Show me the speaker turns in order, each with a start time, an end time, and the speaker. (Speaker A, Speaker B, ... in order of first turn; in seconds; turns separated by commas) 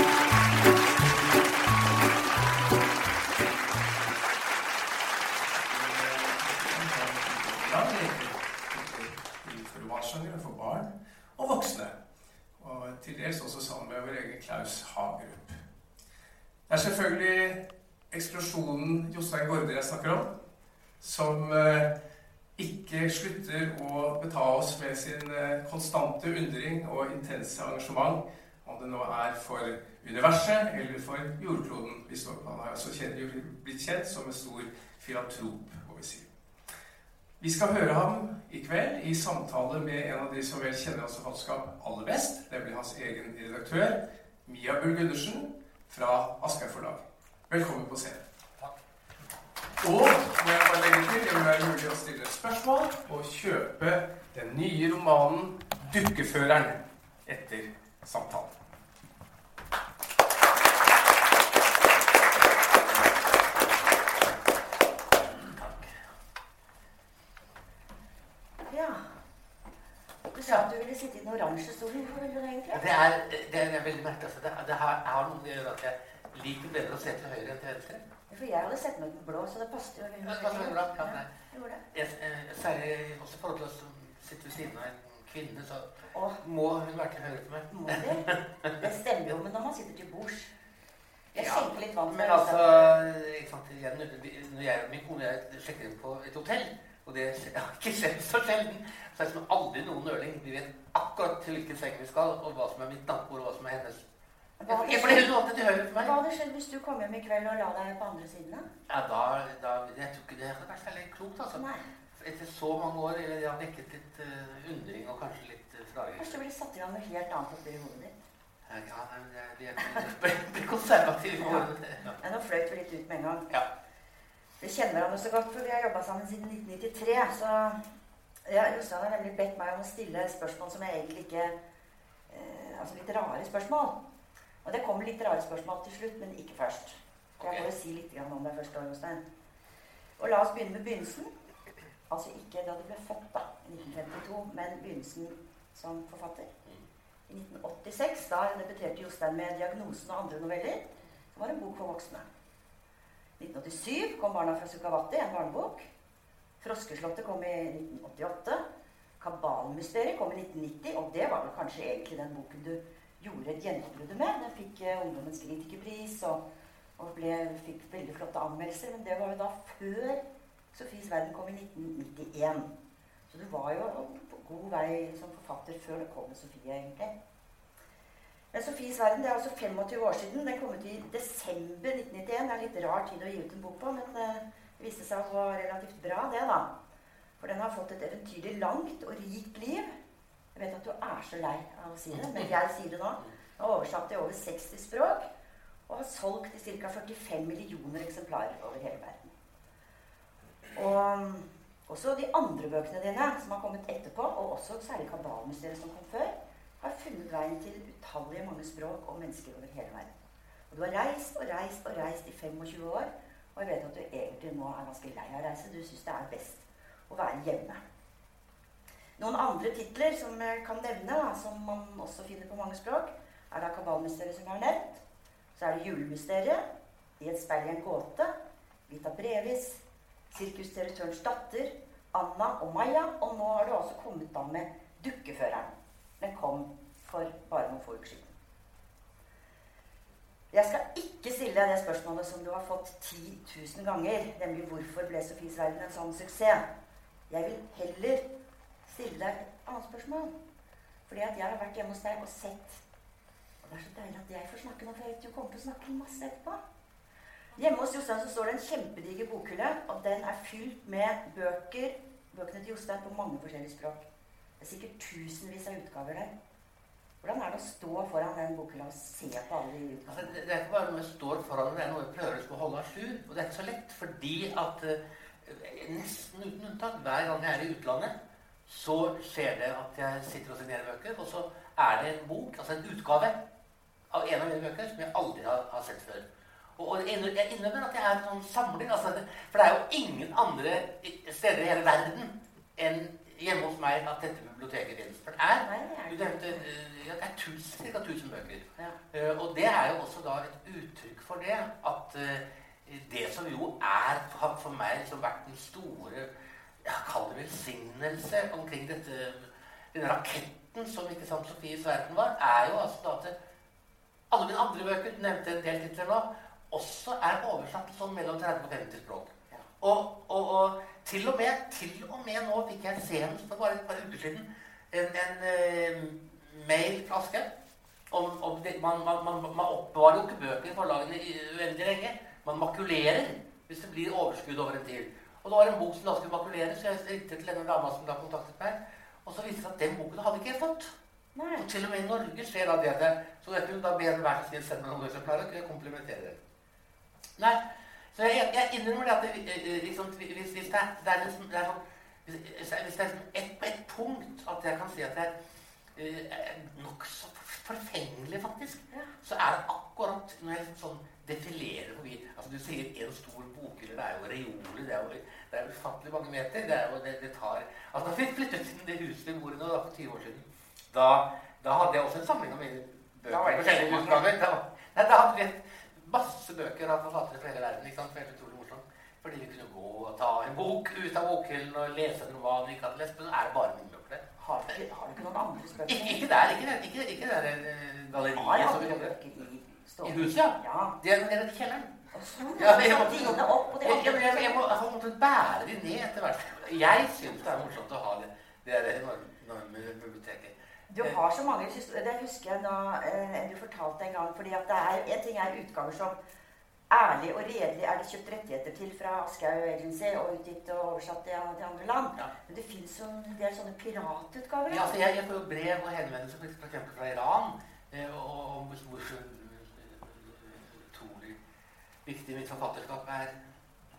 Speaker A: 5.5-12.0, Speaker A: 12.6-15.6, Speaker A: 16.7-20.3, Speaker A: 21.0-21.9, Speaker A: 22.6-36.3, Speaker A: 37.4-48.2, Speaker A: 49.8-58.5, Speaker B: 65.2-66.0, Speaker C: 68.7-69.2, Speaker C: 70.3-72.8, Speaker B: 72.7-78.0, Speaker C: 78.3-81.8, Speaker B: 80.2-81.3, Speaker B: 81.9-88.7, Speaker C: 86.1-86.4, Speaker C: 87.7-90.5, Speaker C: 91.3-92.9, Speaker B: 91.3-104.0, Speaker C: 104.6-105.3, Speaker B: 104.7-106.2, Speaker C: 106.0-108.7, Speaker B: 108.9-111.6, Speaker C: 111.5-111.8, Speaker B: 112.2-116.4, Speaker C: 116.2-118.1, Speaker B: 118.7-122.2, Speaker C: 121.4-121.7, Speaker C: 122.2-123.5, Speaker C: 124.6-127.8, Speaker C: 128.4-131.5, Speaker C: 132.3-134.0, Speaker C: 134.6-139.2, Speaker B: 137.4-137.7, Speaker C: 140.2-141.3, Speaker C: 142.1-146.5, Speaker C: 147.3-152.3, Speaker C: 153.4-155.9, Speaker C: 156.6-158.6, Speaker C: 159.2-166.4, Speaker C: 167.0-170.2, Speaker C: 170.7-172.7, Speaker C: 173.3-177.1, Speaker C: 178.5-186.7, Speaker C: 187.4-189.9, Speaker C: 190.5-195.3, Speaker C: 195.9-199.3, Speaker C: 200.7-210.1, Speaker C: 210.7-217.8, Speaker C: 219.2-225.0, Speaker C: 225.5-226.6, Speaker C: 227.2-228.3, Speaker C: 228.9-238.3, Speaker C: 240.5-246.6, Speaker C: 247.3-248.3, Speaker C: 248.8-250.3, Speaker C: 251.1-252.8, Speaker C: 253.6-256.6, Speaker C: 257.6-264.1, Speaker C: 264.6-266.3, Speaker C: 267.2-270.4, Speaker B: 270.1-278.1, Speaker B: 278.7-283.4, Speaker B: 284.1-286.2, Speaker B: 286.8-306.3, Speaker C: 295.6-296.6, Speaker B: 306.8-313.3, Speaker B: 314.3-327.5, Speaker B: 328.1-340.9, Speaker C: 341.3-341.7, Speaker B: 341.6-346.4, Speaker B: 347.4-347.6, Speaker B: 348.1-355.3, Speaker B: 355.9-384.8, Speaker C: 373.3-374.2, Speaker C: 384.4-386.2, Speaker B: 385.8-389.1, Speaker C: 388.2-391.0, Speaker B: 390.0-392.0, Speaker C: 392.1-394.6, Speaker B: 392.6-401.1, Speaker C: 400.9-406.2, Speaker C: 406.9-415.0, Speaker B: 414.7-421.4, Speaker B: 422.0-423.4